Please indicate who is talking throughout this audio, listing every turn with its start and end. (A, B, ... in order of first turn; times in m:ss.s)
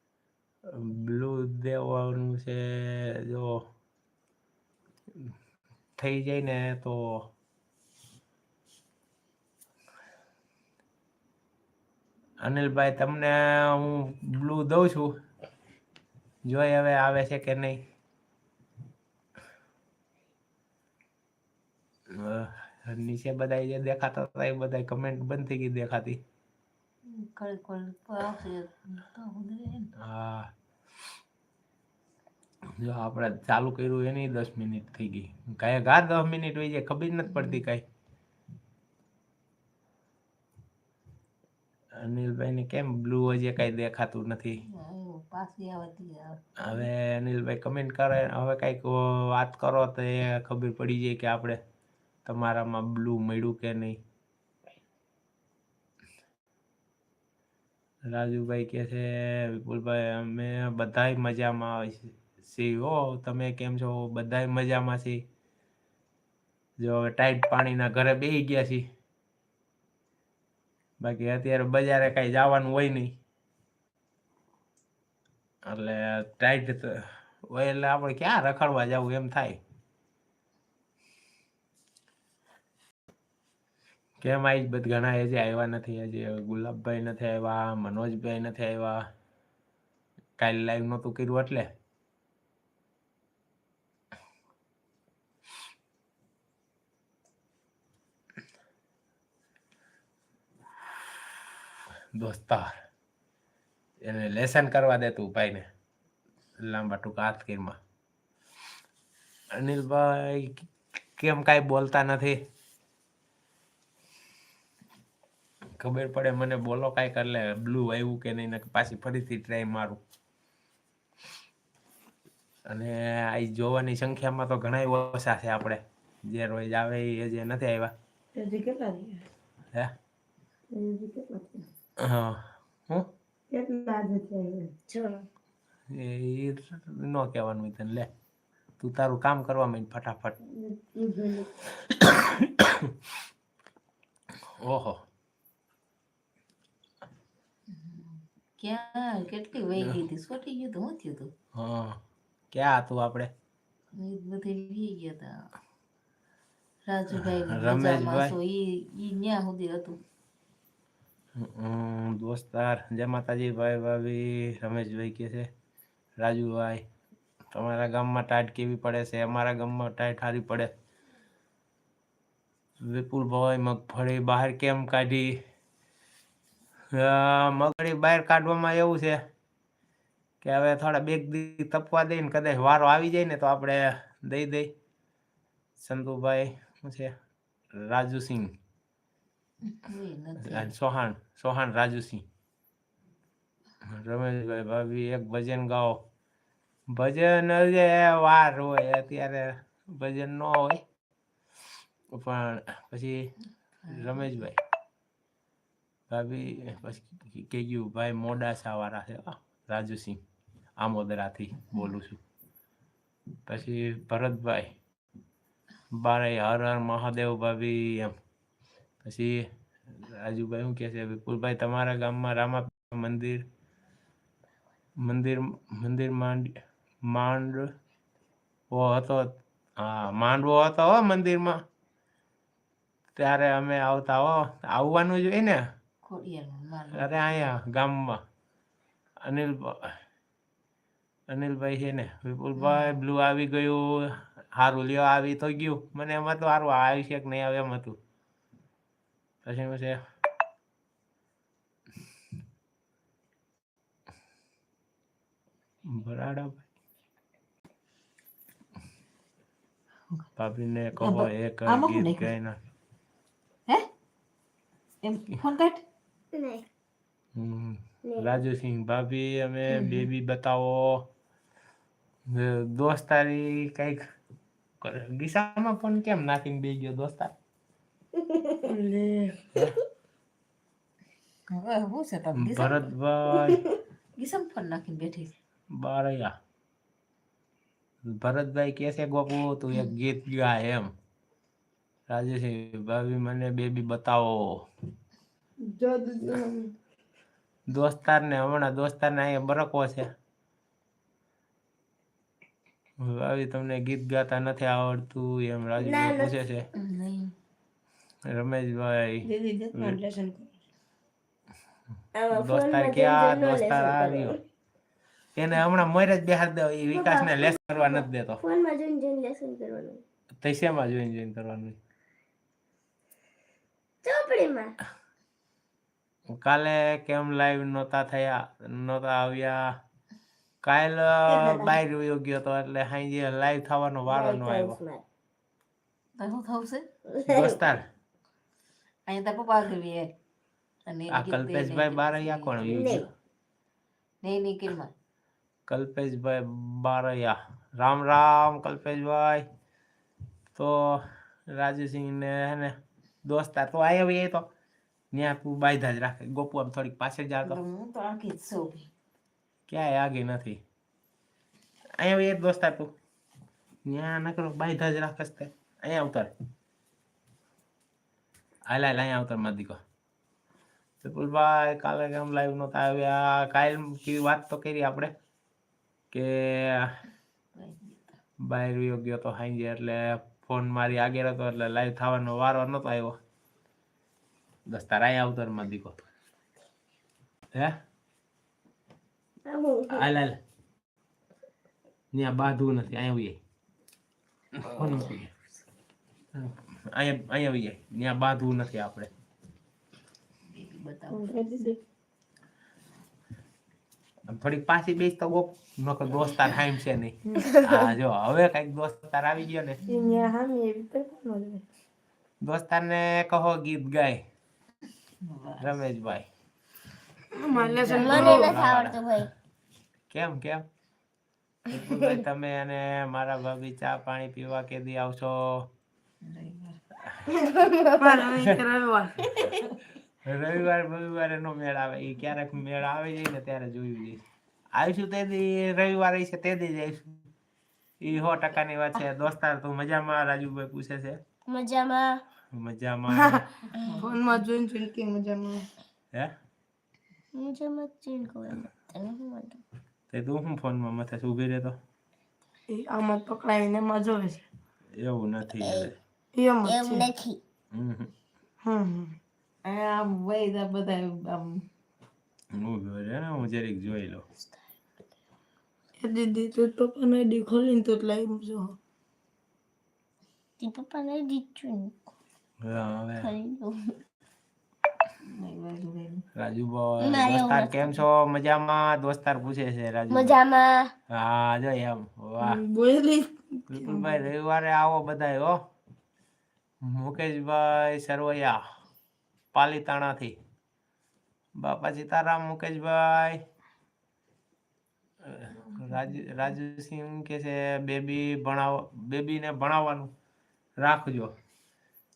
0:00.7-0:03.6 A
0:06.0-0:07.3 A
0:12.4-0:15.2 A
0:16.4-0:17.8 A
0:22.1-0:26.2 A
0:27.0-0:29.9 B
0:30.0-0:30.5 A
0:32.8-0:37.8 A
0:42.0-0:44.6 A
0:44.6-0:46.9 B
0:46.6-0:51.6 A
0:52.2-0:54.0 A
0:58.1-1:05.2 A
1:06.8-1:08.8 A
1:11.0-1:13.2 A
1:15.6-1:19.6 A
1:24.2-1:29.0 A
1:30.4-1:31.7 A
1:42.1-1:42.7 A
1:44.0-1:45.6 A
1:46.6-1:47.8 A
1:49.5-1:52.4 A
1:55.8-2:00.0 A
2:02.7-2:07.9 A
2:08.3-2:09.2 C
2:10.7-2:11.7 C
2:12.0-2:13.1 A
2:13.5-2:14.7 C
2:14.9-2:15.2 D
2:15.9-2:18.1 A
2:18.8-2:20.4 A
2:20.5-2:21.4 C
2:22.0-2:22.9 A
2:24.6-2:25.0 A
2:27.7-2:31.3 B
2:31.5-2:32.0 A
2:32.5-2:33.3 A
2:33.9-2:35.4 B
2:36.8-2:40.0 B
2:37.5-2:38.3 A
2:41.4-2:45.5 A
2:46.2-2:46.8 A
2:47.5-2:50.7 A
2:52.8-2:55.4 A
2:56.9-2:59.2 A
3:00.4-3:04.7 A
3:05.8-3:07.1 A
3:07.7-3:08.5 A
3:09.6-3:10.7 B
3:10.4-3:12.2 A
3:13.8-3:16.0 A
3:16.9-3:20.8 A
3:22.1-3:23.3 A
3:23.9-3:24.6 A
3:26.1-3:30.2 A
3:30.8-3:32.2 A
3:33.5-3:34.7 A
3:35.9-3:38.2 A
3:39.0-3:43.4 A
3:45.0-3:47.7 A
3:48.7-3:51.6 A
3:53.2-3:55.6 A
3:56.0-3:57.2 B
3:56.9-3:58.2 A
3:59.2-4:00.0 A
4:01.3-4:08.0 A
4:02.6-4:02.9 B
4:09.4-4:10.0 A
4:15.8-4:16.6 A
4:20.4-4:22.6 A
4:21.0-4:22.3 B
4:25.0-4:25.8 B
4:26.3-4:26.6 D
4:27.4-4:31.0 A
4:29.7-4:30.0 C
4:32.3-4:34.0 A
4:34.8-4:37.3 A
4:38.2-4:38.6 D
4:38.6-4:39.4 C
4:41.5-4:42.9 B
4:42.4-4:43.6 A
4:44.2-4:45.3 B
4:45.7-4:46.3 A
4:48.0-4:50.9 A
4:52.1-4:54.7 A
4:55.6-4:56.7 C
4:57.7-5:00.1 A
5:03.0-5:06.6 A
5:05.8-5:06.3 D
5:06.7-5:07.3 B
5:08.2-5:10.0 A
5:09.2-5:10.5 C
5:12.1-5:14.4 D
5:12.3-5:14.4 A
5:15.3-5:18.4 A
5:17.0-5:20.0 D
5:20.4-5:21.8 A
5:24.0-5:24.7 D
5:26.3-5:29.8 A
5:30.6-5:34.8 A
5:34.1-5:35.0 D
5:36.2-5:36.9 B
5:37.1-5:37.6 D
5:37.2-5:37.8 A
5:39.1-5:40.1 B
5:40.8-5:42.9 B
5:41.1-5:43.0 A
5:42.7-5:43.0 D
5:44.2-5:44.9 B
5:45.7-5:49.4 A
5:50.5-5:54.4 A
5:55.1-5:57.6 A
5:57.4-5:58.9 B
5:59.7-6:00.6 A
6:02.0-6:02.9 A
6:03.8-6:06.3 A
6:08.7-6:09.8 A
6:11.0-6:15.1 A
6:16.1-6:16.9 A
6:17.5-6:18.2 B
6:18.4-6:23.2 A
6:24.7-6:26.0 A
6:27.5-6:27.8 A
6:29.4-6:30.0 D
6:29.9-6:30.4 A
6:32.1-6:33.4 A
6:34.6-6:35.3 A
6:36.3-6:39.1 A
6:40.4-6:41.3 B
6:41.1-6:41.8 C
6:44.3-6:49.8 A
6:47.4-6:47.9 D
6:49.8-6:50.3 B
6:49.9-6:51.6 C
6:52.4-6:54.2 A
6:55.2-6:55.8 B
6:55.6-6:56.3 A
6:57.4-6:58.5 C
6:57.5-6:58.5 B
6:57.9-6:59.3 D
6:58.0-6:59.1 A
7:00.1-7:00.6 A
7:01.7-7:05.7 A
7:06.2-7:06.8 B
7:07.4-7:08.4 D
7:08.0-7:09.2 C
7:09.3-7:09.6 D
7:10.2-7:14.2 A
7:14.7-7:17.2 A
7:18.0-7:21.2 A
7:21.5-7:22.2 D
7:22.5-7:23.4 A
7:23.1-7:25.6 C
7:23.7-7:24.4 B
7:27.3-7:29.6 D
7:30.1-7:31.8 A
7:32.7-7:34.4 C
7:34.9-7:35.9 A
7:35.6-7:35.9 D
7:36.3-7:37.1 C
7:36.6-7:37.4 D
7:37.7-7:38.1 A
7:38.6-7:39.2 C
7:39.6-7:41.6 B
7:42.5-7:44.2 A
7:46.0-7:48.8 C
7:50.6-7:51.9 D
7:52.6-7:53.3 A
7:53.2-7:54.0 D
7:55.2-7:56.2 B
7:56.3-8:00.3 A
7:57.0-7:58.0 D
8:00.1-8:00.9 D
8:01.1-8:02.6 A
8:02.4-8:04.2 C
8:03.7-8:05.6 A
8:06.8-8:08.6 A
8:09.5-8:10.3 A
8:11.6-8:13.4 A
8:15.2-8:20.1 A
8:20.8-8:21.3 A